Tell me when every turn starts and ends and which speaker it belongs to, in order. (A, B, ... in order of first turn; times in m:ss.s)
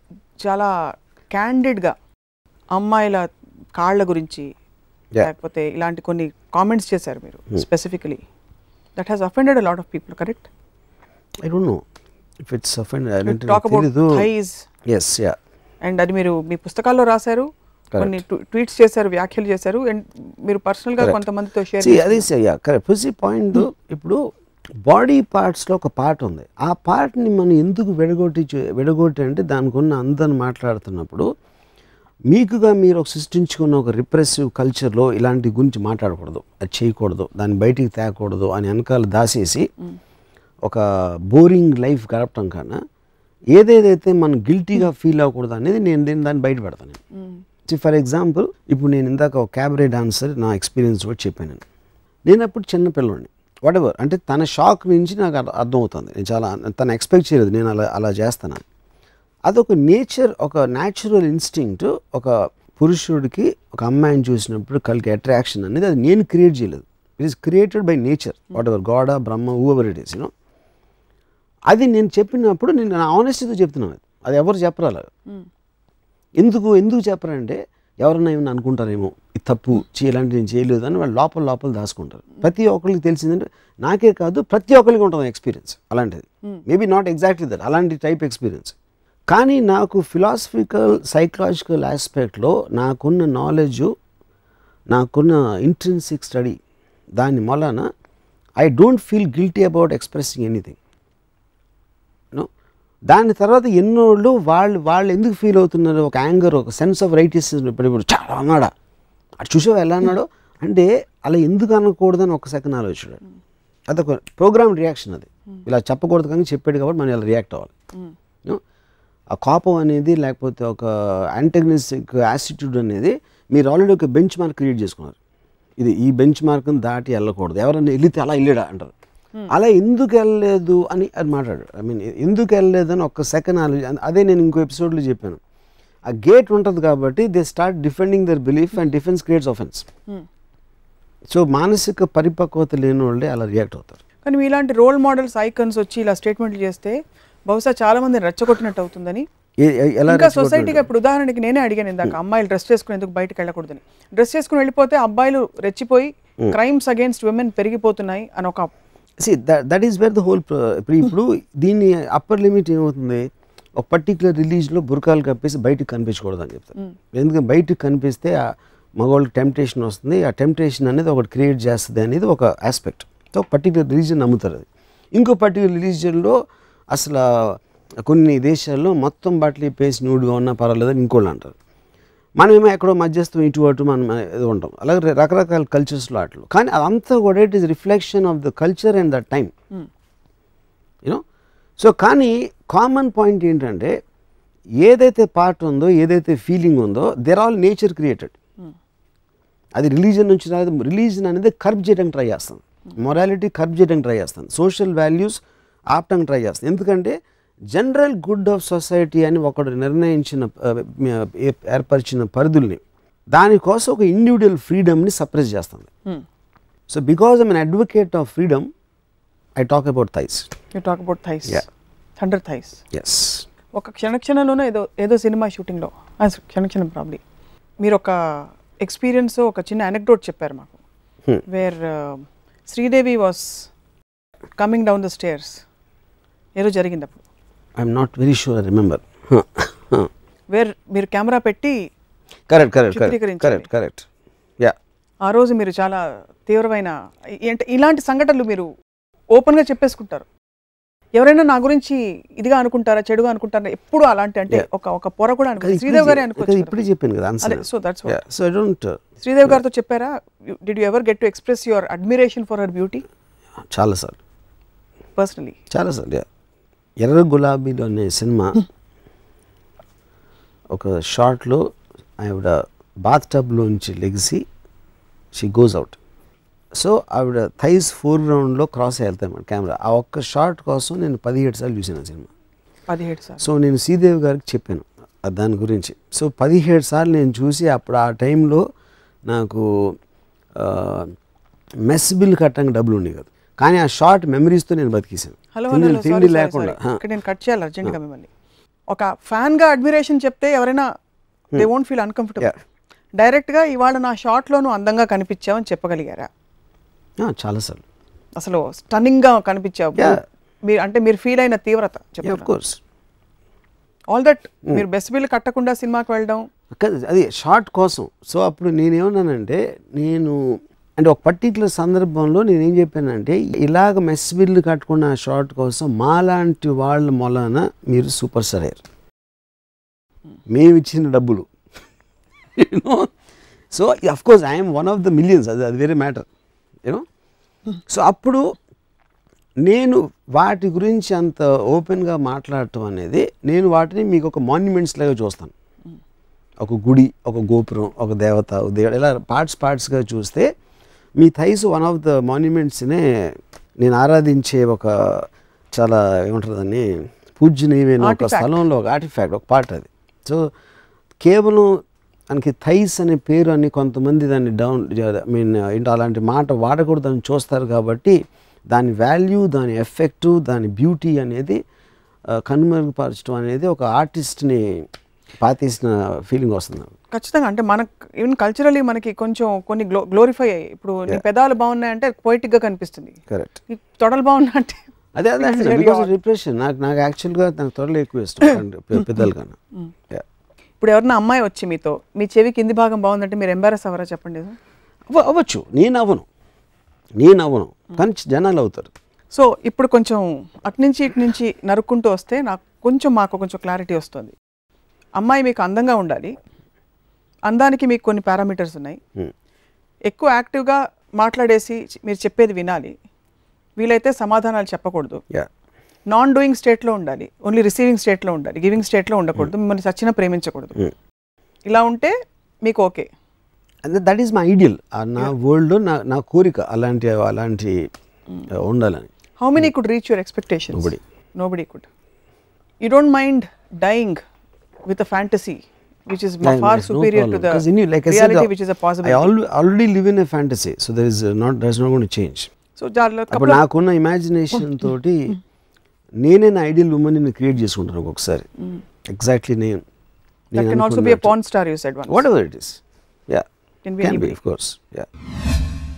0:00.4-0:00.7 A
0:01.3-0:01.9 A
0:02.7-0:03.2 A
0:03.8-0:04.5 A
0:05.2-0:08.2 A
0:09.0-0:10.5 A
0:11.4-0:11.8 B
0:12.4-0:14.2 B
0:13.2-0:14.6 A
0:14.9-0:15.4 B
0:15.8-0:22.3 A
0:21.8-0:24.2 B
0:24.8-0:31.3 B
0:32.3-0:39.7 B
0:40.7-0:42.8 B
0:43.5-0:47.0 B
0:47.1-0:47.4 A
0:47.7-0:51.6 B
0:52.2-0:58.6 B
0:59.5-1:10.3 B
1:11.7-1:15.1 B
1:16.4-1:28.7 B
1:29.3-1:33.9 B
1:34.9-1:36.6 B
1:37.2-1:37.9 B
1:38.6-1:40.8 B
1:43.1-1:48.7 B
1:49.4-1:53.2 B
1:53.9-1:57.7 B
1:59.3-2:05.2 B
2:05.8-2:08.9 B
2:09.5-2:15.4 B
2:16.1-2:19.8 B
2:21.3-2:24.0 B
2:24.2-2:29.2 A
2:29.6-2:30.9 B
2:30.1-2:38.7 A
2:39.2-2:43.2 B
2:43.8-2:56.4 B
2:56.9-3:01.5 B
3:02.4-3:09.5 B
3:11.8-3:13.9 B
3:14.8-3:18.3 B
3:19.8-3:25.4 B
3:25.9-3:27.2 B
3:27.7-3:32.8 B
3:33.3-3:35.9 B
3:36.9-3:38.7 B
3:39.6-3:40.5 B
3:40.7-3:41.7 A
3:42.2-3:42.8 A
3:42.9-3:43.4 B
3:43.8-3:47.2 A
3:47.8-3:50.8 A
3:51.4-3:53.7 A
3:54.6-3:55.6 A
3:56.6-3:57.2 A
3:57.8-4:00.1 B
4:00.5-4:01.8 A
4:02.5-4:04.0 B
4:02.9-4:03.7 A
4:05.2-4:08.7 A
4:09.3-4:10.3 A
4:11.1-4:16.8 A
4:15.6-4:19.6 B
4:17.4-4:18.2 A
4:19.2-4:23.0 A
4:23.7-4:24.2 B
4:25.2-4:25.6 A
4:25.7-4:26.2 B
4:27.0-4:28.6 B
4:30.7-4:31.6 B
4:32.2-4:34.4 B
4:35.3-4:36.0 B
4:36.7-4:42.3 B
4:42.9-4:43.4 A
4:43.4-4:48.6 B
4:49.3-4:49.7 B
4:50.6-4:51.1 B
4:51.8-4:57.0 B
4:55.5-4:58.3 A
4:58.9-5:00.8 A
5:01.5-5:02.5 A
5:03.2-5:06.3 A
5:07.2-5:07.8 B
5:08.4-5:12.5 A
5:12.2-5:12.8 B
5:14.1-5:16.4 A
5:16.7-5:20.4 B
5:21.0-5:28.8 B
5:30.5-5:31.5 B
5:32.6-5:33.1 B
5:33.7-5:36.2 B
5:37.9-5:38.5 B
5:39.6-5:45.5 B
5:46.6-5:50.5 B
5:51.2-6:00.4 B
5:58.0-5:58.6 A
6:01.2-6:01.8 B
6:02.3-6:08.2 B
6:08.7-6:11.6 B
6:12.4-6:14.8 B
6:15.4-6:16.9 B
6:17.1-6:24.8 A
6:23.3-6:23.6 B
6:25.1-6:29.6 B
6:25.4-6:26.1 A
6:30.8-6:34.6 A
6:35.1-6:36.2 B
6:37.2-6:38.9 B
6:39.3-6:44.3 A
6:45.2-6:46.3 A
6:47.5-6:49.0 A
6:50.1-6:52.9 A
6:53.8-6:55.2 A
6:56.1-7:00.8 A
7:01.7-7:02.1 A
7:02.6-7:03.1 A
7:03.8-7:07.9 B
7:08.5-7:09.1 B
7:09.4-7:11.9 A
7:10.7-7:11.0 B
7:12.8-7:14.2 A
7:14.8-7:19.3 A
7:16.4-7:18.5 B
7:19.0-7:22.5 B
7:22.8-7:23.6 A
7:23.3-7:25.4 B
7:26.2-7:28.5 B
7:29.1-7:29.8 B
7:30.5-7:32.2 A
7:30.5-7:31.3 B
7:32.1-7:33.4 B
7:33.8-7:34.4 A
7:34.0-7:35.1 B